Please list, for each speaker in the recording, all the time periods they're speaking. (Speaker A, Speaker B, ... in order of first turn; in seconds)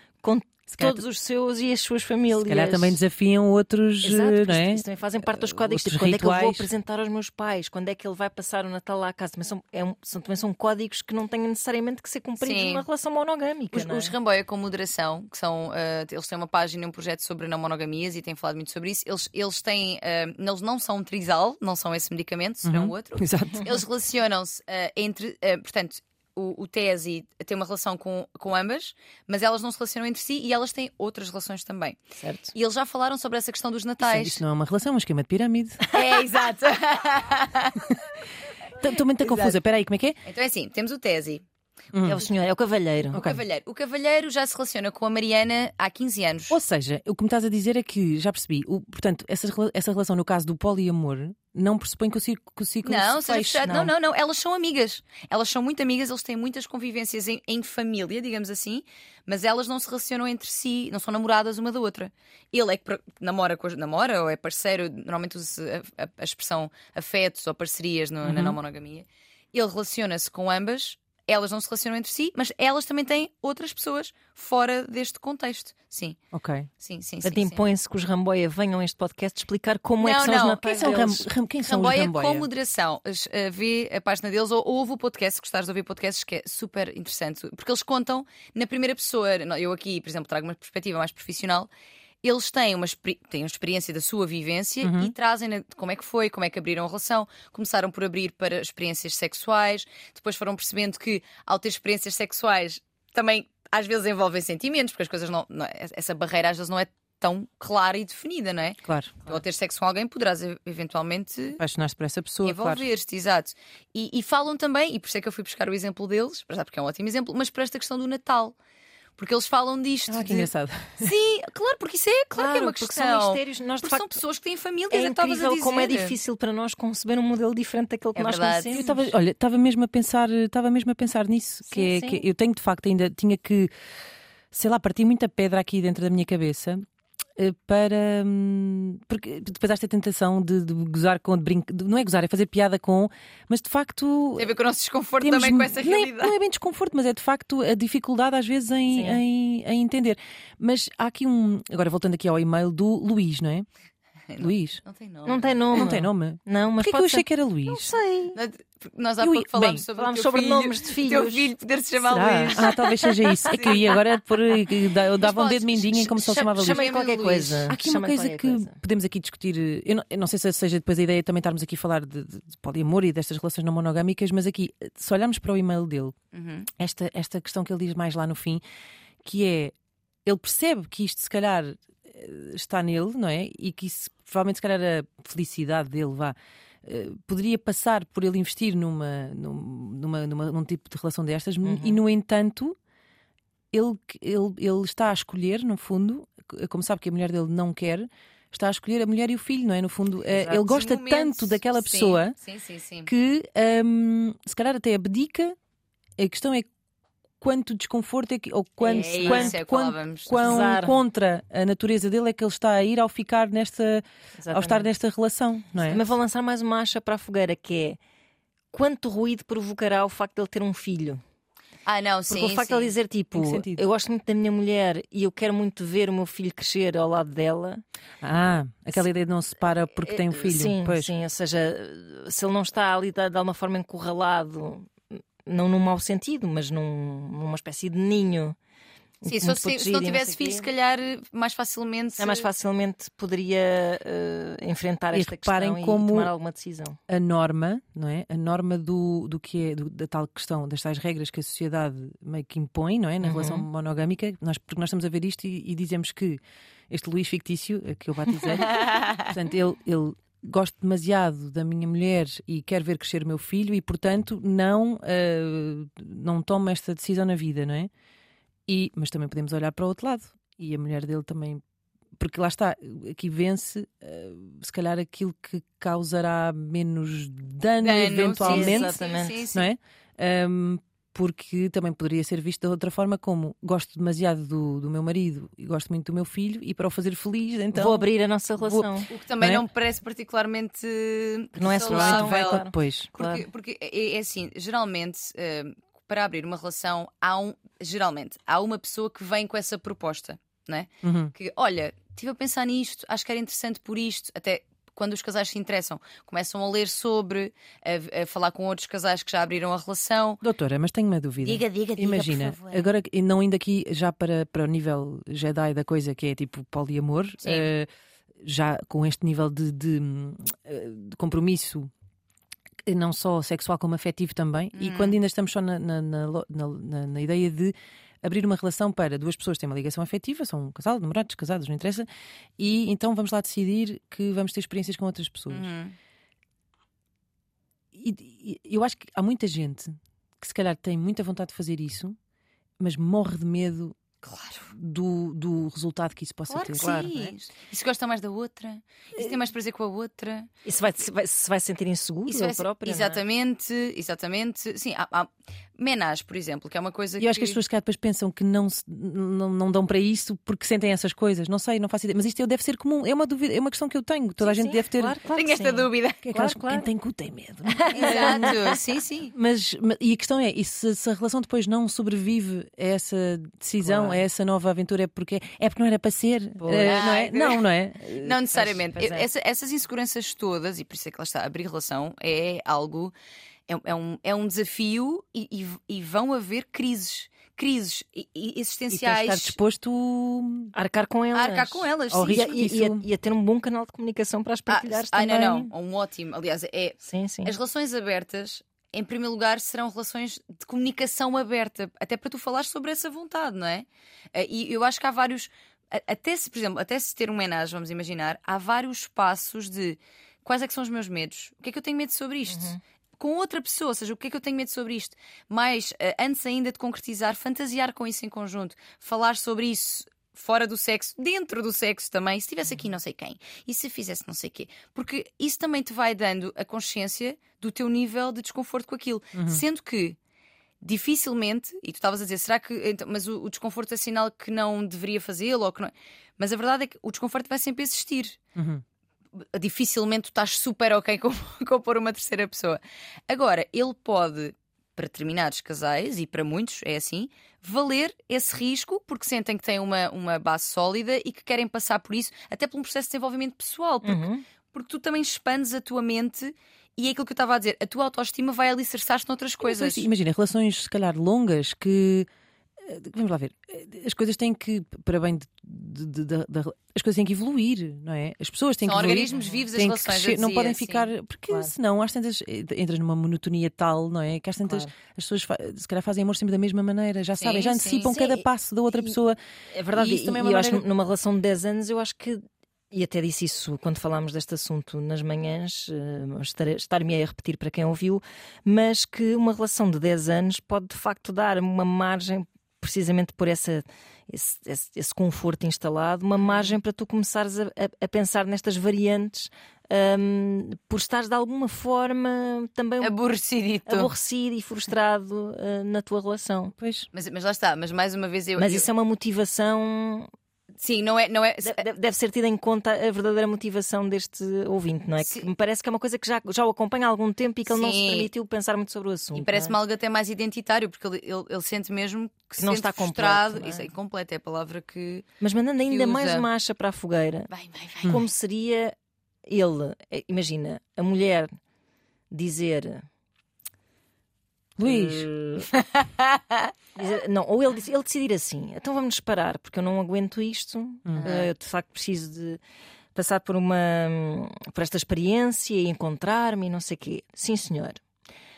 Speaker A: 0.2-3.0, 4.0-14.1, 32.2-32.5, 42.0-43.2, 77.2-81.3, 122.3-124.2, 124.9-129.1, 131.7-132.2, 148.9-149.2, 155.3-158.4, 159.9-161.5, 162.1-162.8, 163.5-163.8, 166.5-168.8, 191.6-192.0, 208.8-209.6, 210.4-211.0, 214.4-214.9, 215.8-218.0, 218.7-221.2, 222.3-227.8, 230.0-238.6, 239.2-240.7, 242.2-247.0, 253.2-253.7, 278.4-279.5, 287.7-289.1, 291.6-293.4, 346.8-347.1, 350.6-353.2, 364.4-366.9, 367.7-368.8, 373.8-374.2, 376.6-377.0, 390.8-395.7, 397.1-397.5, 412.5-412.8, 454.0-454.4, 469.3-469.7, 474.6-474.9, 478.0-479.2, 479.7-503.1, 503.9-506.8, 508.6-510.3, 511.6-519.8, 522.6-523.9, 525.4-527.5, 528.0-529.0, 529.5-531.5, 532.3-533.0, 534.8-535.7, 537.0-542.6, 543.1-548.0
Speaker B: 0.7-1.0, 2.3-6.7, 22.6-23.8, 34.0-35.9, 38.8-40.2, 41.9-42.2, 43.1-43.4, 46.5-53.9, 68.2-68.6, 76.3-76.7, 80.6-82.5, 94.8-95.1, 108.8-109.2, 111.6-112.9, 120.1-121.1, 128.7-133.7, 134.5-136.8, 137.4-144.5, 145.2-153.7, 154.4-154.8, 155.8-157.9, 159.2-159.8, 162.1-166.9, 167.7-176.2, 176.7-178.6, 179.2-192.8, 193.7-202.3, 203.1-205.6, 206.2-206.7, 207.4-216.0, 223.3-223.9, 228.2-231.1, 245.1-246.3, 247.1-267.9, 268.7-271.6, 272.2-278.9, 279.5-288.1, 288.6-288.9, 291.7-293.1, 301.0-301.3, 310.4-317.9, 318.4-321.9, 322.9-332.1, 332.6-335.7, 337.9-342.2, 342.8-344.0, 344.7-347.3, 357.2-365.2, 366.2-368.6, 369.3-379.3, 388.9-390.7, 392.1-393.1, 429.4-429.6, 438.6-438.8, 459.6-462.3, 462.8-479.4, 479.9-480.8, 506.8-507.1, 534.8-535.3
Speaker C: 12.4-12.8, 13.7-34.4, 35.9-37.9, 39.2-39.6, 40.2-41.4, 43.2-46.6, 52.9-76.2, 76.8-77.7, 80.0-81.0, 81.6-91.7, 92.2-111.6, 112.4-118.6, 119.2-126.2, 128.2-128.8, 144.4-146.3, 154.3-155.8, 158.3-163.9, 165.2-167.7, 176.3-176.7, 200.5-203.1, 208.8-210.7, 221.9-222.9, 239.3-242.5, 258.8-259.2, 277.8-279.7, 289.1-310.4, 311.4-312.9, 317.4-317.7, 324.7-325.2, 335.5-336.0, 344.2-344.7, 346.5-350.5, 352.3-357.6, 365.3-366.2, 367.9-369.3, 376.8-377.6, 378.2-383.1, 383.7-389.6, 391.3-392.5, 394.7-430.2, 430.8-438.4, 439.4-460.1, 468.8-471.1, 477.4-478.1, 496.4-496.7, 503.0-504.1, 507.1-508.9, 510.8-511.9, 515.2-515.5, 517.7-518.3, 519.3-525.3, 525.9-526.5, 527.5-528.2, 535.7-536.7, 541.2-541.5